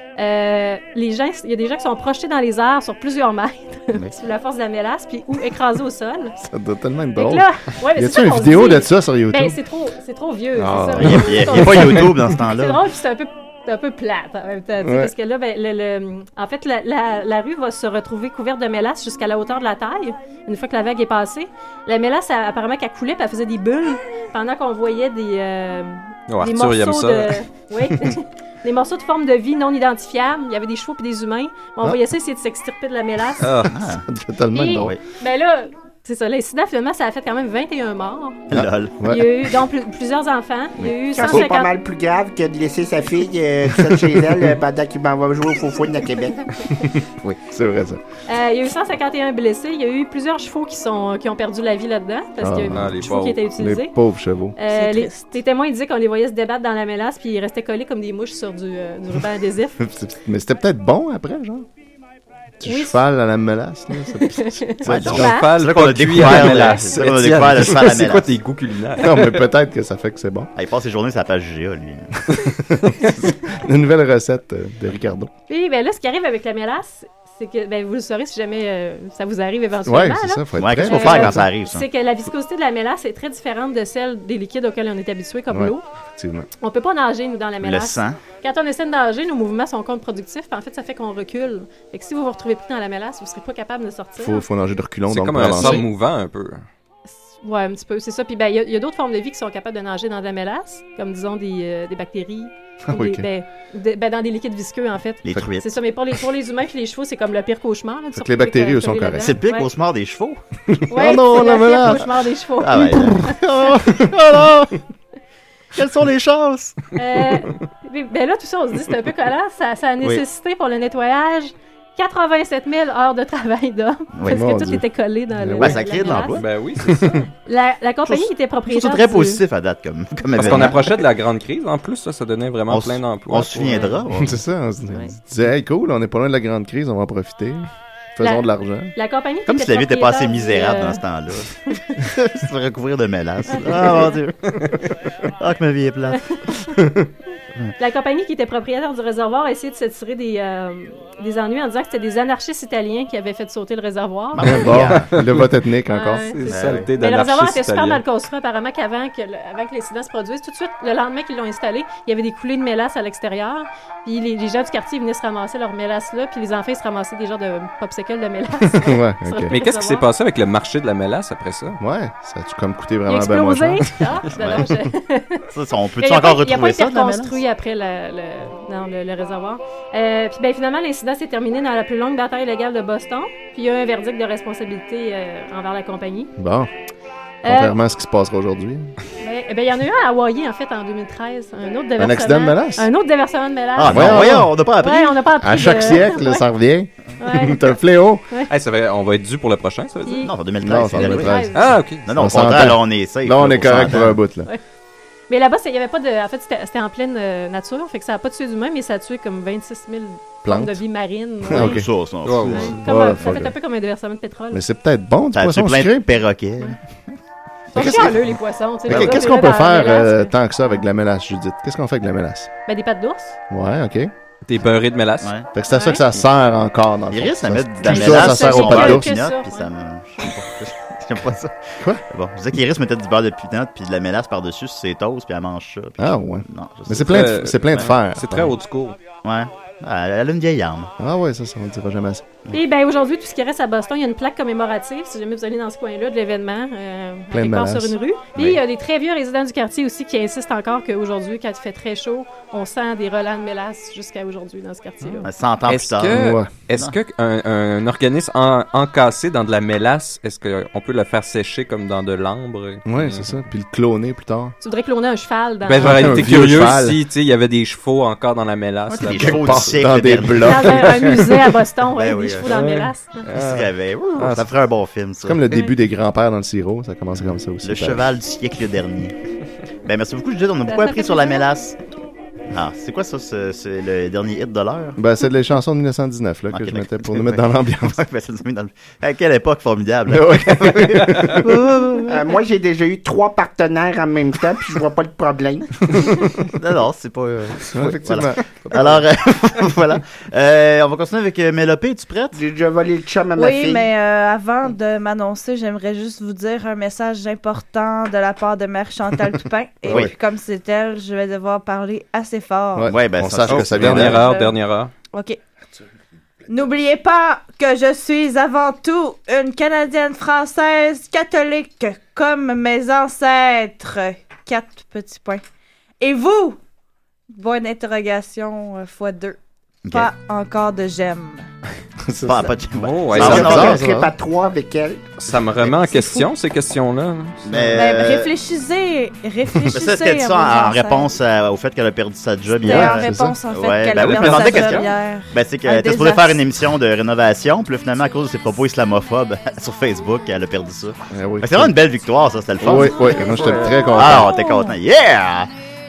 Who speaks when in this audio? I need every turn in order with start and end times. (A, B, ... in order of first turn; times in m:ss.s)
0:00.2-0:06.3 A
0:06.4-0:09.6 B
0:07.2-0:33.6 A
0:10.5-0:12.3 B
0:11.0-0:12.8 C
0:14.8-0:15.1 B
0:26.3-0:27.4 D
0:33.4-0:33.8 D
0:33.7-0:34.0 C
0:34.0-0:35.0 B
0:34.5-0:41.7 A
0:38.5-0:39.0 C
0:38.5-0:39.3 B
0:40.8-0:41.5 C
0:41.1-0:46.4 E
0:47.5-0:48.0 B
0:48.3-0:53.9 A
0:52.4-0:54.6 B
0:52.7-0:53.4 D
0:54.6-0:59.8 A
0:54.6-0:55.3 F
0:59.8-1:01.6 B
1:02.6-1:05.3 B
1:02.6-1:03.0 A
1:03.9-1:05.6 A
1:04.8-1:08.3 C
1:05.0-1:09.4 D
1:06.2-1:06.8 A
1:09.0-1:10.5 B
1:10.6-1:12.1 C
1:12.3-1:15.3 B
1:15.5-1:25.8 A
1:19.8-1:21.5 B
1:20.6-1:21.8 C
1:25.5-1:26.5 B
1:26.6-1:34.4 A
1:27.6-1:28.2 C
1:34.2-1:35.9 B
1:35.1-1:36.6 D
1:37.2-1:49.7 A
1:42.8-1:43.3 B
1:45.2-1:45.7 C
1:48.1-1:49.4 B
1:49.2-1:50.4 C
1:50.7-1:52.2 B
1:50.9-1:53.1 A
1:52.6-1:54.8 C
1:52.8-1:53.3 B
1:55.7-1:56.8 C
1:57.0-2:06.4 A
2:04.1-2:04.4 C
2:04.3-2:05.8 B
2:05.6-2:06.4 C
2:06.3-2:07.2 D
2:06.9-2:07.2 B
2:07.4-2:09.4 A
2:08.0-2:11.0 C
2:10.3-2:14.0 D
2:12.7-2:14.4 C
2:13.7-2:14.0 A
2:14.1-2:18.9 B
2:18.2-2:21.0 A
2:19.4-2:24.6 C
2:23.5-2:24.2 A
2:25.4-2:26.2 C
2:26.1-2:26.6 A
2:27.8-2:34.6 A
2:34.3-2:35.1 C
2:34.4-2:36.4 B
2:35.0-2:35.5 D
2:35.9-2:50.1 A
2:36.3-2:38.0 D
2:36.5-2:36.9 C
2:48.7-2:49.5 B
2:49.5-2:51.8 D
2:51.8-2:54.0 B
2:53.1-2:55.4 A
2:54.3-2:54.7 C
2:55.5-2:57.4 C
2:56.0-3:06.3 A
3:06.4-3:06.7 B
3:07.4-3:07.8 A
3:07.4-3:08.9 B
3:09.2-3:16.4 A
3:12.0-3:12.9 B
3:13.8-3:15.2 C
3:13.8-3:14.6 B
3:15.3-3:18.2 B
3:17.2-3:17.8 A
3:18.5-3:20.3 D
3:20.0-3:20.4 A
3:20.2-3:24.2 C
3:20.6-3:24.5 B
3:21.0-3:21.8 A
3:21.5-3:22.1 D
3:25.3-3:31.8 A
3:30.4-3:30.8 B
3:31.4-3:33.5 B
3:31.5-3:32.8 C
3:32.2-3:32.8 D
3:32.5-3:34.6 A
3:34.5-3:36.2 B
3:35.3-3:37.1 C
3:37.7-3:40.3 A
3:37.7-3:42.5 B
3:42.7-3:43.4 A
3:43.5-3:44.1 B
3:44.4-3:45.4 D
3:45.2-3:45.5 C
3:45.5-3:49.1 B
3:45.7-3:46.0 A
3:47.1-3:57.9 C
3:47.8-3:49.7 A
3:56.0-3:58.6 B
3:57.1-3:59.0 D
3:59.2-4:00.9 C
4:01.0-4:02.4 B
4:02.5-4:15.3 A
4:07.3-4:08.0 B
4:08.3-4:08.6 C
4:15.0-4:23.4 D
4:15.2-4:16.2 C
4:16.1-4:16.5 B
4:22.8-4:24.5 B
4:24.6-4:26.2 A
4:25.6-4:29.7 D
4:25.7-4:27.0 B
4:28.9-4:30.8 C
4:29.0-4:31.3 B
4:30.4-4:33.3 A
4:31.9-4:32.5 C
4:32.5-4:34.5 D
4:33.3-4:35.6 C
4:35.2-4:38.1 B
4:37.6-4:39.1 C
4:39.8-4:41.8 C
4:40.7-4:41.4 A
4:42.5-4:45.0 C
4:45.0-4:48.0 B
4:46.5-4:52.2 C
4:50.1-4:51.4 B
4:52.1-4:55.7 E
4:56.5-5:02.4 C
4:57.7-4:59.0 B
5:02.3-5:03.9 E
5:03.4-5:12.9 F
5:09.9-5:10.1 C
5:12.8-5:14.2 B
5:12.9-5:14.2 C
5:13.5-5:14.9 D
5:14.2-5:14.6 F
5:15.1-5:15.4 F
5:16.5-5:25.4 F
5:26.0-5:26.6 F
5:27.3-5:29.4 F
5:29.8-5:30.1 C
5:29.9-5:31.5 F
5:32.1-5:32.4 B
5:32.2-5:33.8 C
5:32.7-5:33.9 D
5:33.1-5:34.1 B
5:33.7-5:35.1 E
5:35.2-5:37.5 D
5:35.7-5:36.3 F
5:37.4-5:38.3 C
5:37.7-5:41.2 F
5:39.7-5:55.5 C
5:42.6-5:46.4 F
5:42.6-5:43.4 B
5:44.2-5:44.4 B
5:51.1-5:51.8 B
5:52.6-5:54.3 B
5:52.6-5:54.8 F